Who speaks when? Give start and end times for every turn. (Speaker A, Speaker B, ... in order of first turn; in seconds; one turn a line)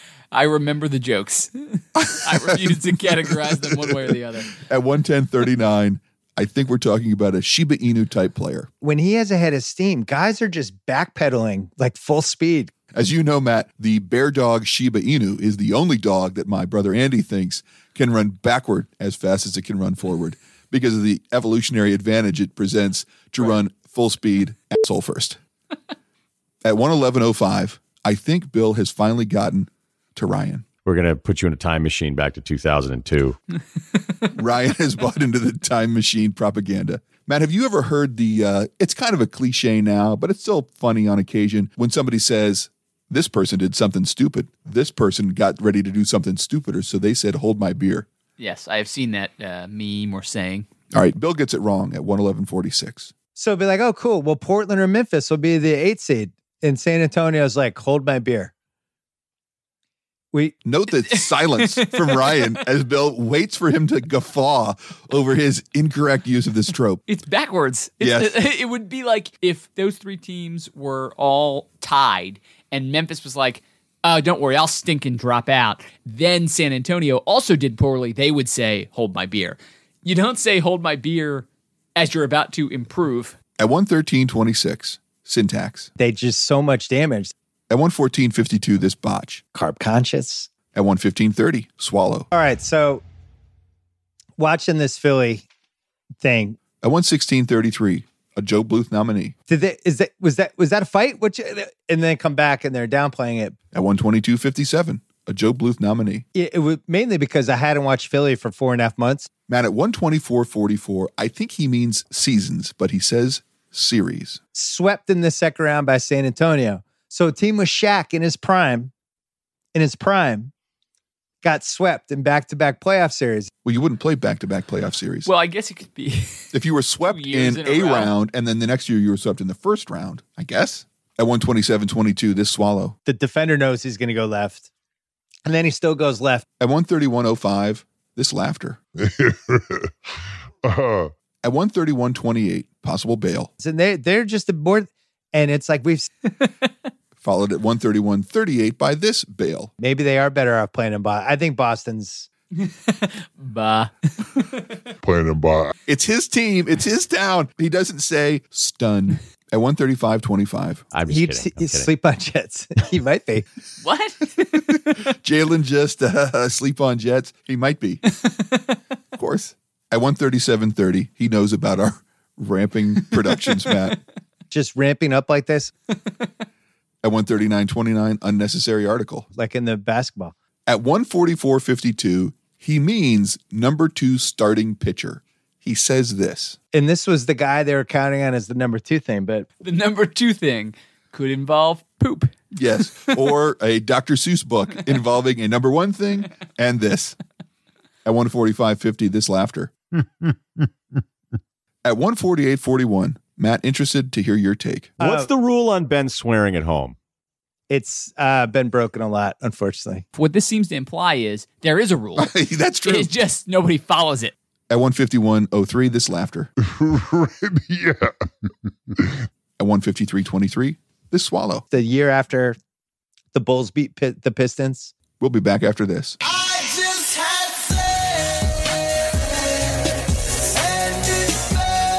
Speaker A: 0.3-4.6
Speaker B: 2.0-8.7
Speaker C: 8.8-12.7
Speaker B: 12.9-25.4
Speaker B: 26.6-30.7
Speaker D: 30.8-33.4
Speaker B: 34.3-48.1
Speaker A: 48.4-50.7
Speaker B: 50.9-53.1
Speaker C: 53.4-58.5
Speaker B: 60.6-67.0
Speaker A: 61.6-62.4
Speaker A: 67.1-83.4
Speaker B: 68.0-68.4
Speaker B: 83.6-85.9
Speaker C: 86.0-87.3
Speaker B: 87.7-89.4
Speaker C: 89.5-90.5
Speaker B: 90.7-92.3
Speaker C: 92.3-93.0
Speaker C: 94.4-95.5
Speaker C: 96.2-96.6
Speaker B: 96.8-99.3
Speaker C: 99.5-103.6
Speaker B: 103.7-106.2
Speaker C: 106.3-109.3
Speaker B: 109.5-114.4
Speaker C: 114.5-118.9
Speaker C: 119.7-120.5
Speaker C: 121.4-123.5
Speaker B: 123.6-125.3
Speaker A: 125.2-126.5
Speaker B: 126.5-133.0
Speaker A: 127.0-128.1
Speaker C: 133.1-134.7
Speaker C: 135.5-136.4
Speaker B: 136.6-138.8
Speaker E: 139.0-141.1
Speaker B: 141.4-143.5
Speaker C: 143.6-146.1
Speaker B: 147.2-149.7
Speaker C: 149.8-152.3
Speaker A: 152.6-154.5
Speaker E: 155.0-155.8
Speaker B: 155.9-160.8
Speaker D: 160.9-161.9
Speaker C: 161.1-163.5
Speaker A: 163.8-165.0
Speaker B: 164.9-168.0
Speaker A: 168.3-168.5
Speaker B: 169.2-174.0
Speaker C: 174.5-175.7
Speaker B: 177.0-179.3
Speaker C: 179.3-180.3
Speaker B: 180.7-186.6
Speaker C: 186.7-189.5
Speaker A: 189.6-192.3
Speaker B: 192.5-197.2
Speaker B: 198.1-199.7
Speaker B: 201.8-204.9
Speaker C: 205.0-205.3
Speaker D: 205.0-207.0
Speaker C: 207.7-210.0
Speaker A: 210.1-214.3
Speaker B: 212.2-213.1
Speaker B: 214.7-216.5
Speaker E: 216.6-219.2
Speaker B: 219.6-221.6
Speaker C: 221.7-222.6
Speaker C: 223.3-224.9
Speaker B: 225.2-226.2
Speaker C: 226.9-227.2